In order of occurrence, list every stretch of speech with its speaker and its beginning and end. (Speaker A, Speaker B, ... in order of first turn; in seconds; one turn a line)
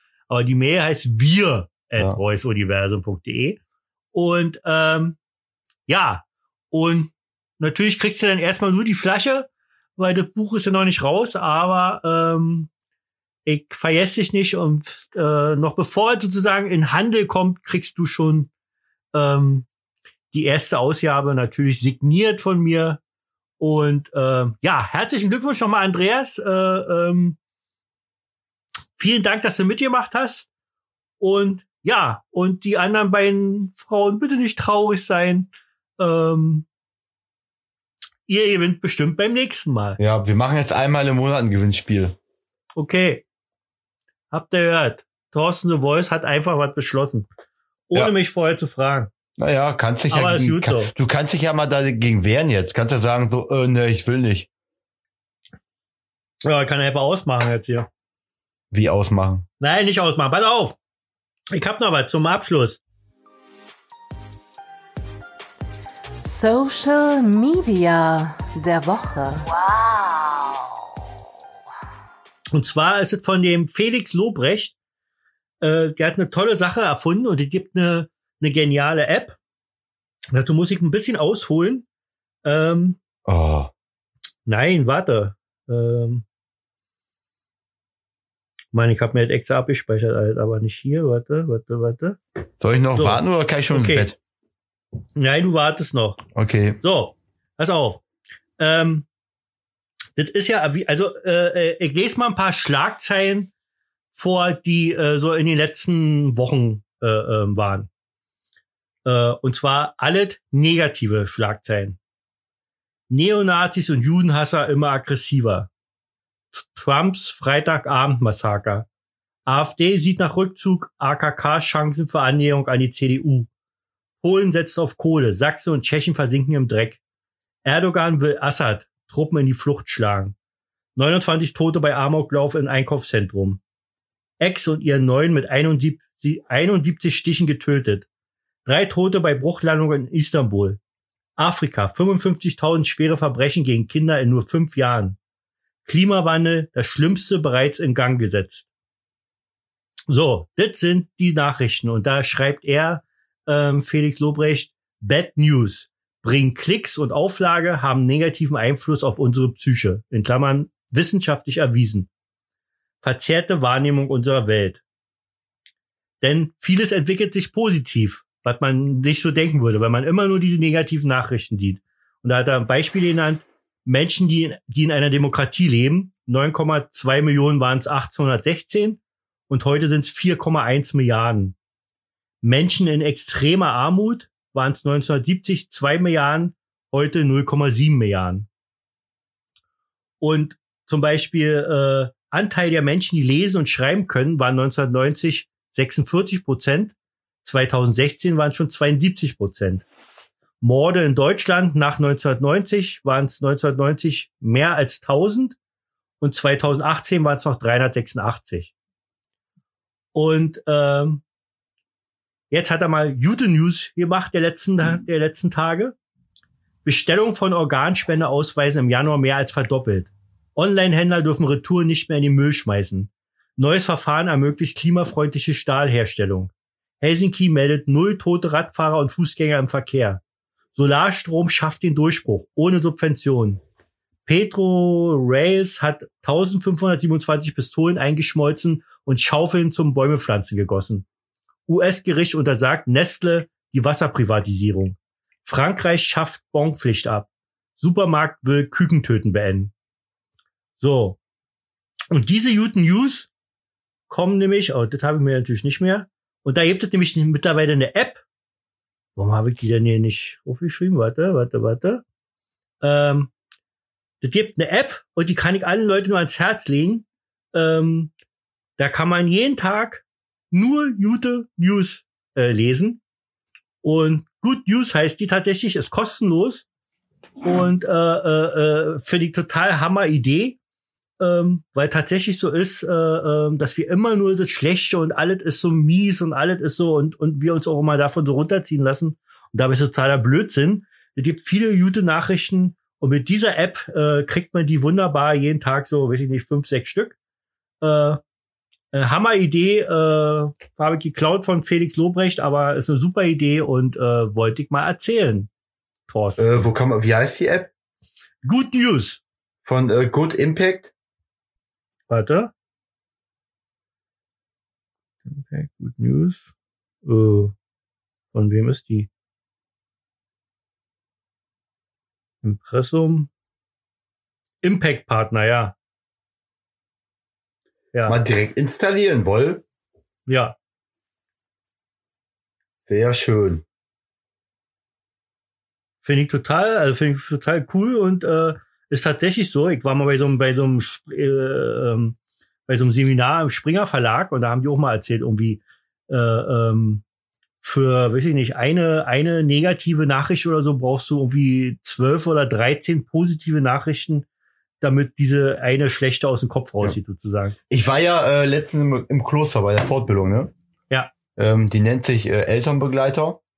Speaker A: 0.3-3.6
Speaker A: 4.1-5.2
Speaker A: 5.9-12.7
Speaker A: 13.5-18.5
Speaker A: 19.1-19.7
Speaker A: 20.3-23.0
Speaker A: 23.6-27.4
Speaker A: 29.0-30.5
Speaker A: 31.2-36.7
Speaker A: 38.3-40.0
Speaker B: 40.0-42.2
Speaker A: 42.8-43.2
Speaker A: 44.3-47.3
Speaker A: 47.9-49.1
Speaker B: 49.4-54.5
Speaker A: 50.1-50.9
Speaker A: 56.4-57.9
Speaker B: 58.7-59.5
Speaker A: 59.6-60.8
Speaker A: 61.5-62.8
Speaker C: 66.2-69.6
Speaker A: 72.5-74.7
Speaker A: 75.6-79.4
Speaker A: 80.3-81.9
Speaker A: 82.4-83.0
Speaker B: 83.3-83.7
Speaker A: 84.5-86.2
Speaker A: 88.7-92.2
Speaker B: 92.6-94.2
Speaker A: 93.0-94.1
Speaker A: 95.2-96.2
Speaker B: 96.3-96.8
Speaker A: 96.8-98.0
Speaker A: 98.6-99.1
Speaker A: 100.2-103.5
Speaker A: 104.1-107.9
Speaker A: 109.0-112.0
Speaker A: 113.1-115.7
Speaker A: 116.5-118.9
Speaker A: 119.5-123.5
Speaker A: 124.2-127.0
Speaker A: 127.7-130.3
Speaker A: 130.9-133.6
Speaker A: 134.4-138.1
Speaker A: 138.7-140.8
Speaker A: 141.4-145.2
Speaker A: 145.8-148.7
Speaker A: 150.1-162.1
Speaker A: 163.0-164.8
Speaker A: 166.2-181.6
Speaker A: 182.4-188.5
Speaker A: 190.2-199.9
Speaker A: 200.6-205.6
Speaker A: 206.2-208.7
Speaker A: 210.1-211.2
Speaker A: 212.5-215.9
Speaker A: 216.8-230.2
Speaker A: 230.8-233.6
Speaker A: 234.3-241.1
Speaker A: 241.7-249.7
Speaker A: 250.8-251.2
Speaker A: 252.1-253.3
Speaker A: 254.1-258.2
Speaker A: 259.2-262.0
Speaker A: 262.8-263.3
Speaker A: 264.2-268.1
Speaker A: 268.8-273.0
Speaker A: 273.8-276.7
Speaker A: 277.4-280.6
Speaker A: 281.2-297.2
Speaker A: 297.8-298.2
Speaker A: 298.9-305.5
Speaker A: 306.1-306.5
Speaker B: 306.4-307.7
Speaker A: 308.4-309.2
Speaker B: 309.6-310.9
Speaker A: 312.1-312.5
Speaker A: 315.3-316.4
Speaker A: 317.1-317.6
Speaker A: 318.3-319.1
Speaker A: 322.4-323.3
Speaker A: 324.6-325.8
Speaker A: 327.9-328.2
Speaker B: 328.1-329.6
Speaker A: 330.3-330.6
Speaker B: 332.9-333.6
Speaker A: 336.0-347.0
Speaker A: 347.6-354.3
Speaker A: 354.8-357.6
Speaker B: 357.7-360.5
Speaker B: 361.4-363.4